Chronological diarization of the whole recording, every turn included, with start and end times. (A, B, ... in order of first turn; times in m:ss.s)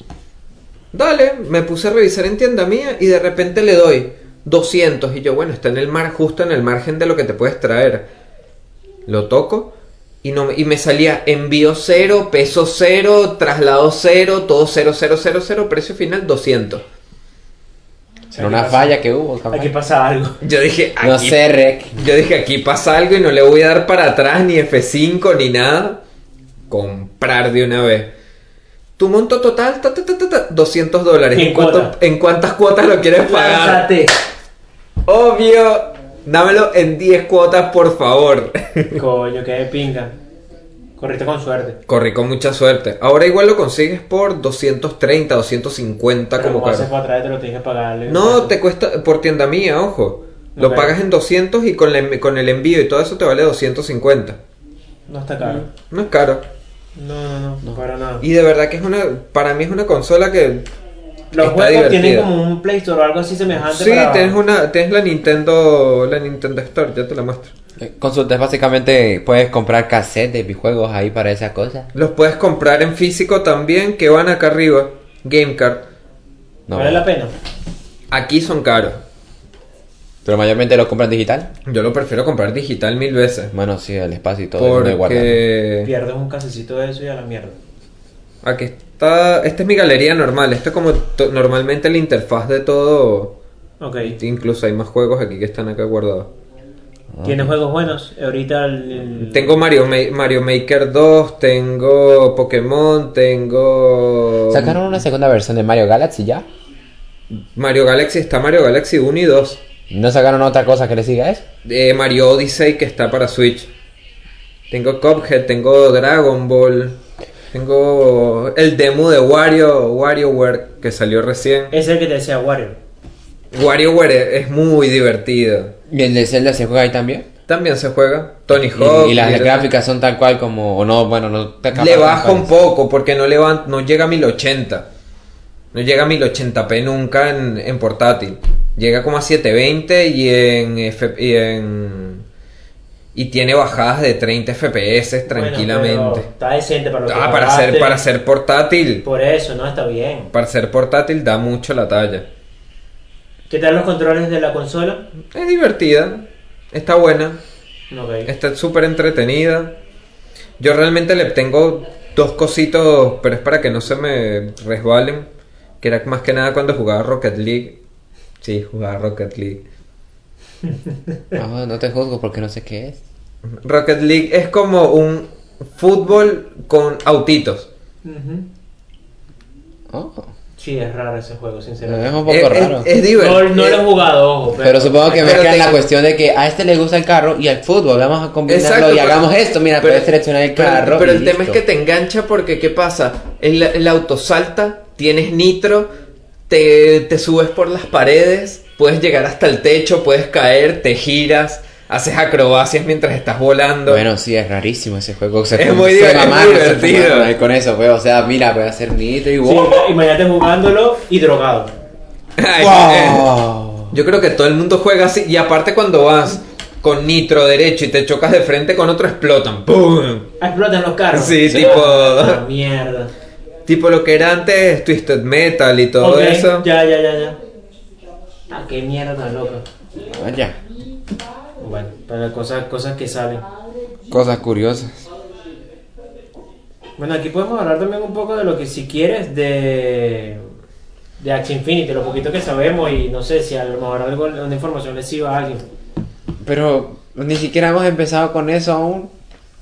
0:00.9-0:08.1 A
0:09.1-0:16.8 A
0:18.3-0:19.7 B
0:18.3-0:18.9 C
0:19.5-0:20.4 C
0:20.4-0:21.4 A
0:21.0-0:22.0 B
0:22.0-0:26.0 A
0:26.7-0:28.1 A
0:29.0-0:33.9 A
0:31.3-0:31.9 C
0:33.2-0:34.1 C
0:35.0-0:39.0 A
0:38.9-0:40.2 C
0:41.0-0:41.8 C
0:41.9-0:46.9 A
0:46.4-0:48.5 C
0:48.1-0:54.4 A
0:50.6-0:50.9 C
0:55.1-0:55.6 C
0:55.4-0:55.6 B
0:55.9-0:56.4 A
0:57.0-0:58.2 C
0:58.2-1:00.6 A
1:01.3-1:04.4 C
1:01.4-1:02.3 A
1:03.6-1:07.5 A
1:07.8-1:11.9 B
1:11.9-1:15.9 A
1:16.7-1:17.0 B
1:16.7-1:17.3 C
1:18.1-1:19.0 A
1:20.2-1:21.5 B
1:21.6-1:23.5 A
1:23.5-1:25.4 B
1:24.6-1:25.9 A
1:25.8-1:27.6 C
1:28.4-1:33.4 A
1:33.8-1:34.2 C
1:34.0-1:36.3 A
1:37.2-1:37.5 B
1:37.2-1:39.6 C
1:39.2-1:44.8 A
1:44.5-1:46.4 B
1:47.4-1:49.6 A
1:49.9-1:51.4 B
1:51.6-1:53.7 A
1:54.7-1:57.0 A
1:57.5-2:01.8 A
2:01.7-2:02.8 C
2:03.5-2:05.7 A
2:05.9-2:07.3 B
2:07.5-2:09.7 A
2:08.5-2:12.6 B
2:11.7-2:14.9 A
2:15.7-2:22.2 A
2:23.1-2:26.3 A
2:25.3-2:28.0 C
2:27.1-2:29.0 A
2:29.0-2:30.3 C
2:30.3-2:32.2 A
2:33.5-2:35.0 C
2:35.3-2:37.4 A
2:37.9-2:38.3 C
2:38.2-2:39.8 A
2:40.6-2:45.3 A
2:45.8-2:47.8 A
2:48.4-2:49.6 A
2:50.7-2:51.2 C
2:51.3-2:53.0 B
2:53.5-2:57.7 A
2:58.0-2:58.5 C
2:59.9-3:00.3 B
3:00.6-3:02.2 C
3:01.8-3:02.9 B
3:02.3-3:03.8 A
3:03.1-3:05.4 C
3:04.6-3:11.6 B
3:05.1-3:05.8 A
3:08.5-3:09.3 A
3:09.8-3:15.9 A
3:16.5-3:24.0 A
3:23.9-3:29.9 B
3:25.5-3:27.3 A
3:29.4-3:31.7 C
3:32.4-3:33.3 A
3:32.6-3:34.0 B
3:33.9-3:40.3 A
3:40.4-3:43.1 C
3:41.1-3:42.4 A
3:41.5-3:41.8 B
3:43.6-3:46.7 A
3:46.0-3:47.4 C
3:48.5-3:49.6 C
3:50.0-3:50.6 B
3:51.6-3:53.4 C
3:54.1-3:55.0 B
3:57.0-4:00.5 C
4:01.2-4:05.6 C
4:06.4-4:09.1 B